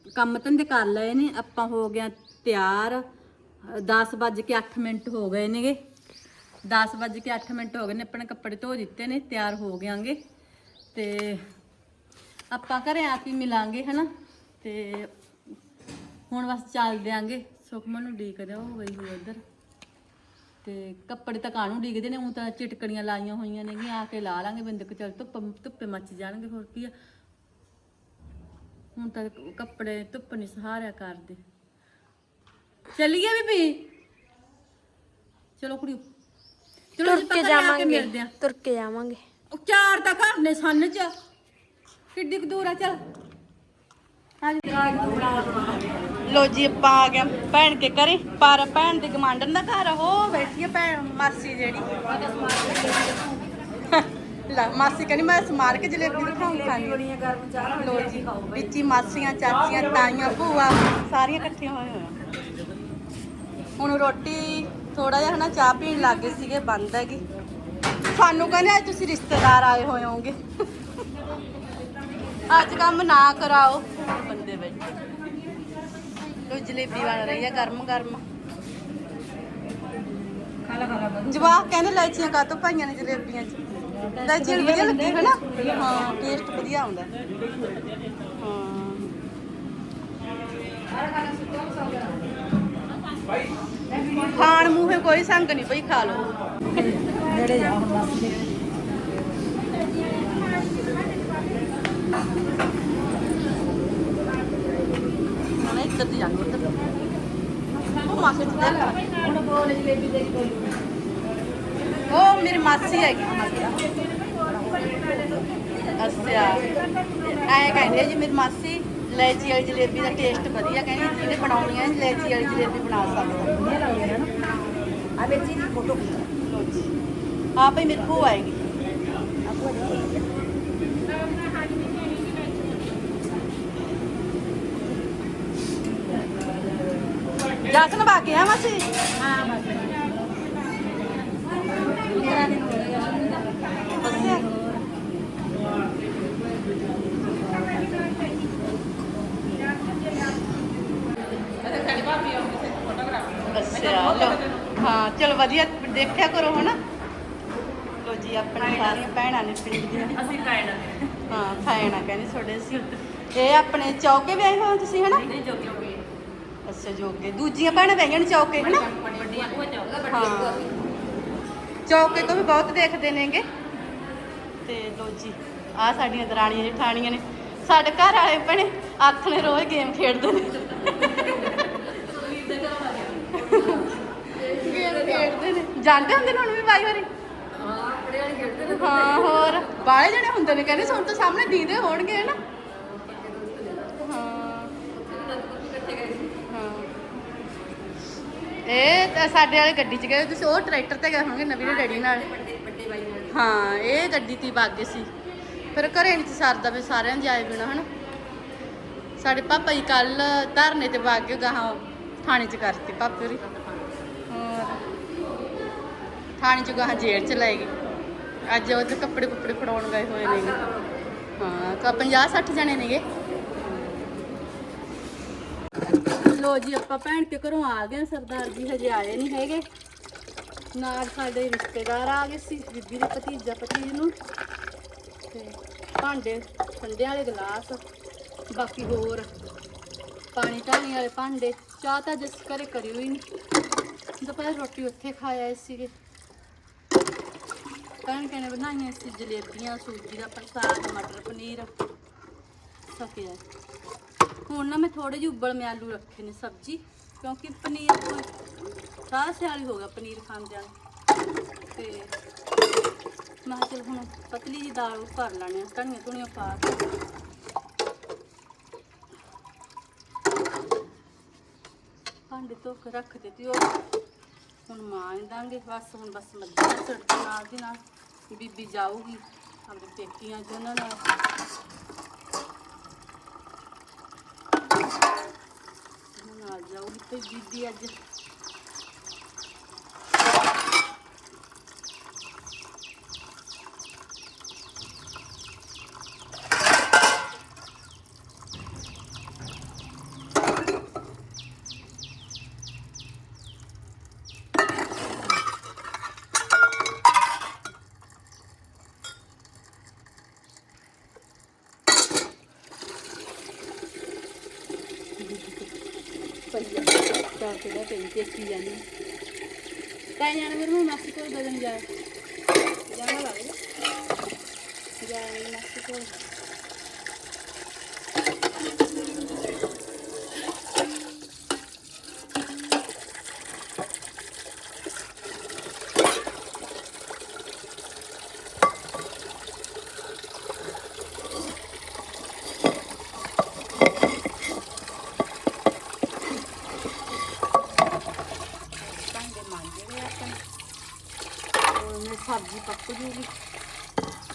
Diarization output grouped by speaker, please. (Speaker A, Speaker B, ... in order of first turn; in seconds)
Speaker A: 0.1-3.0, 3.6-5.8, 6.7-10.2, 10.9-11.4, 12.5-14.1, 14.6-15.1, 16.3-19.4, 20.6-26.9, 29.0-31.4, 33.0-33.9, 35.6-36.0, 37.0-38.3, 39.5-41.1, 42.1-43.0, 46.2-53.0, 53.8-57.1, 57.7-62.2, 63.8-67.2, 68.1-71.0, 72.5-74.9, 76.5-78.2, 81.2-87.1, 88.4-89.1, 93.9-98.5, 105.5-106.8, 108.0-109.0, 112.1-113.7, 116.0-116.7, 117.2-123.7, 126.2-126.9, 127.5-128.7, 137.7-138.9, 144.0-144.6, 153.5-156.8, 158.0-160.6, 161.2-165.3, 166.7-169.4, 170.0-170.7, 171.9-173.4, 174.7-182.2, 183.3-187.1, 188.7-192.4, 193.9-194.8, 196.4-196.9, 198.7-202.4, 203.2-205.1, 205.7-207.9, 209.2-213.5, 214.3-214.9, 216.4-217.7, 218.5-220.6, 221.4-223.1, 226.1-229.7, 230.7-234.2, 235.3-237.8, 238.5-239.3, 240.3-243.2, 244.2-245.9, 248.1-251.7, 252.9-253.4, 254.5-260.7, 261.7-262.1, 263.4-266.8, 272.3-273.8, 274.7-281.1, 286.2-287.9, 315.2-315.7, 316.5-318.9, 320.2-321.9, 322.9-323.6, 325.0-326.2, 348.8-350.4, 351.7-353.3
Speaker B: 37.0-39.2
Speaker C: 44.4-45.9, 57.1-57.8, 80.7-81.2, 84.2-85.5, 91.3-92.0, 109.2-110.7, 114.7-115.3, 123.8-124.3, 125.2-126.2, 129.5-129.9, 139.3-139.9, 141.9-143.3, 165.4-166.0, 168.8-170.6, 182.0-183.9, 184.4-185.2, 187.6-189.3, 193.1-193.8, 195.1-196.3, 202.4-203.2